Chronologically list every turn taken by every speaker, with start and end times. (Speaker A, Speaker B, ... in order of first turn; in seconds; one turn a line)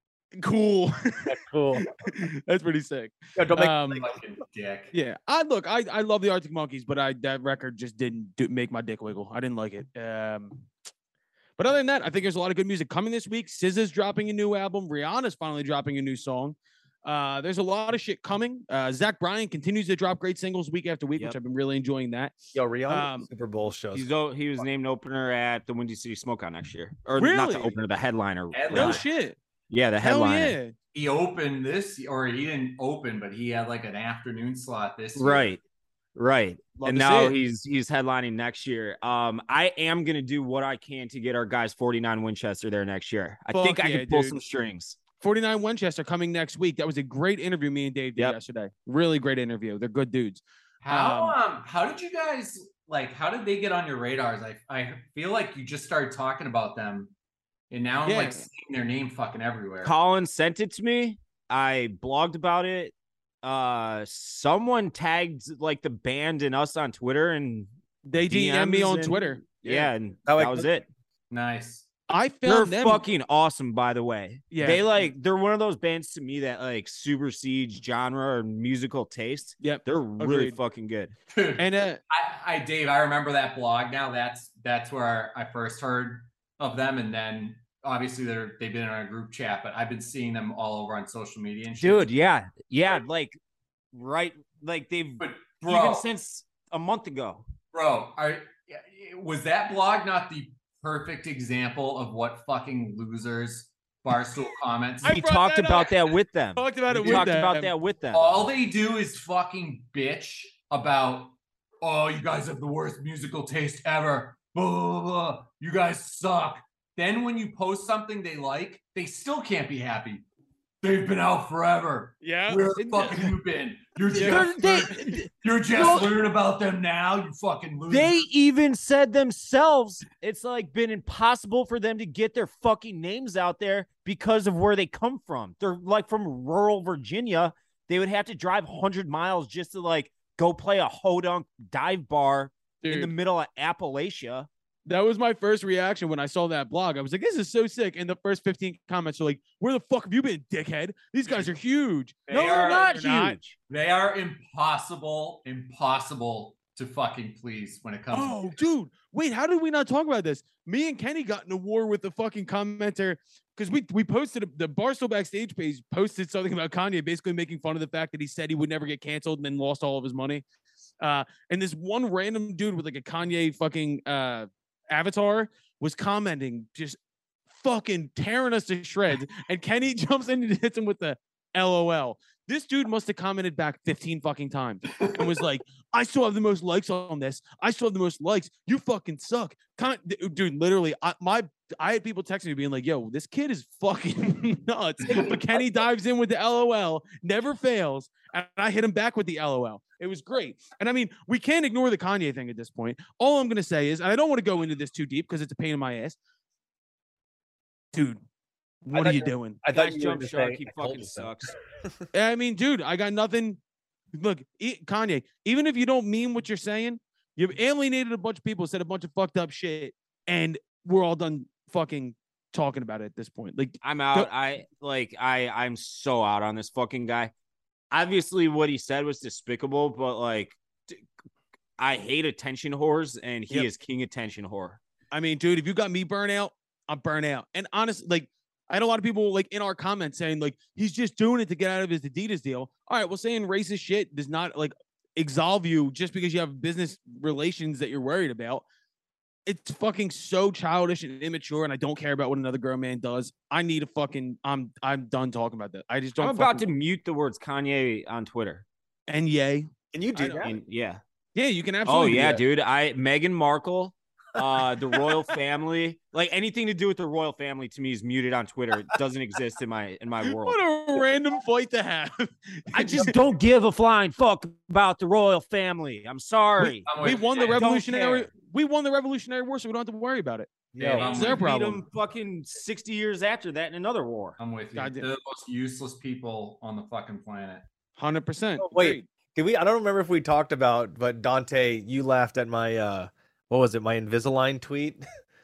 Speaker A: 0.4-1.3
Speaker B: 1.2-1.9
Speaker A: 1.8-4.0
Speaker B: 3.4-4.0
Speaker C: 3.8-4.9
Speaker A: 4.9-10.7
Speaker A: 11.6-23.2
Speaker B: 22.5-24.6
Speaker D: 23.9-29.0
Speaker A: 27.2-27.7
Speaker C: 28.5-29.0
Speaker A: 28.7-29.4
Speaker D: 29.7-30.6
Speaker A: 30.0-30.7
Speaker C: 30.9-35.5
Speaker D: 35.1-35.6
Speaker D: 36.1-45.0
Speaker A: 36.8-37.4
Speaker A: 43.5-44.4
Speaker A: 45.2-51.4
Speaker C: 50.8-57.1
Speaker C: 57.7-59.9
Speaker A: 58.0-58.5
Speaker D: 59.8-67.7
Speaker A: 68.0-69.8
Speaker D: 68.3-70.9
Speaker B: 69.8-70.7
Speaker C: 71.3-71.9
Speaker A: 72.1-73.1
Speaker D: 72.5-81.1
Speaker A: 74.5-74.9
Speaker A: 79.6-80.6
Speaker C: 81.3-92.1
Speaker A: 81.6-82.0
Speaker D: 91.7-93.4
Speaker D: 93.9-97.5
Speaker C: 95.2-96.1
Speaker C: 97.7-105.2
Speaker A: 105.0-106.0
Speaker D: 105.0-108.2
Speaker A: 106.6-107.7
Speaker C: 108.1-120.2
Speaker C: 120.8-128.2
Speaker A: 122.2-123.3
Speaker A: 124.1-125.1
Speaker D: 124.1-126.2
Speaker D: 127.9-144.5
Speaker A: 142.8-143.1
Speaker A: 144.9-153.4
Speaker D: 152.3-153.6
Speaker C: 152.3-152.9
Speaker C: 153.7-158.4
Speaker A: 158.1-170.4
Speaker A: 171.0-177.0
Speaker A: 177.5-206.2
Speaker A: 207.9-208.2
Speaker A: 208.8-209.6
Speaker B: 208.9-211.5
Speaker D: 209.7-211.5
Speaker A: 212.1-213.6
Speaker A: 214.1-224.3
Speaker D: 223.8-227.3
Speaker D: 227.9-231.0
Speaker D: 231.8-234.8
Speaker A: 235.1-248.6
Speaker A: 249.4-256.6
Speaker D: 256.2-258.6
Speaker A: 259.1-260.4
Speaker B: 259.9-260.6
Speaker D: 260.4-261.0
Speaker A: 261.4-262.4
Speaker D: 261.9-270.6
Speaker B: 264.4-265.0
Speaker A: 270.2-273.1
Speaker D: 272.7-278.3
Speaker A: 276.6-280.5
Speaker C: 276.9-277.6
Speaker B: 280.7-281.3
Speaker C: 280.8-281.4
Speaker D: 281.0-284.4
Speaker A: 281.0-281.8
Speaker C: 284.4-287.6
Speaker A: 284.7-285.0
Speaker A: 288.0-289.1
Speaker B: 288.6-295.0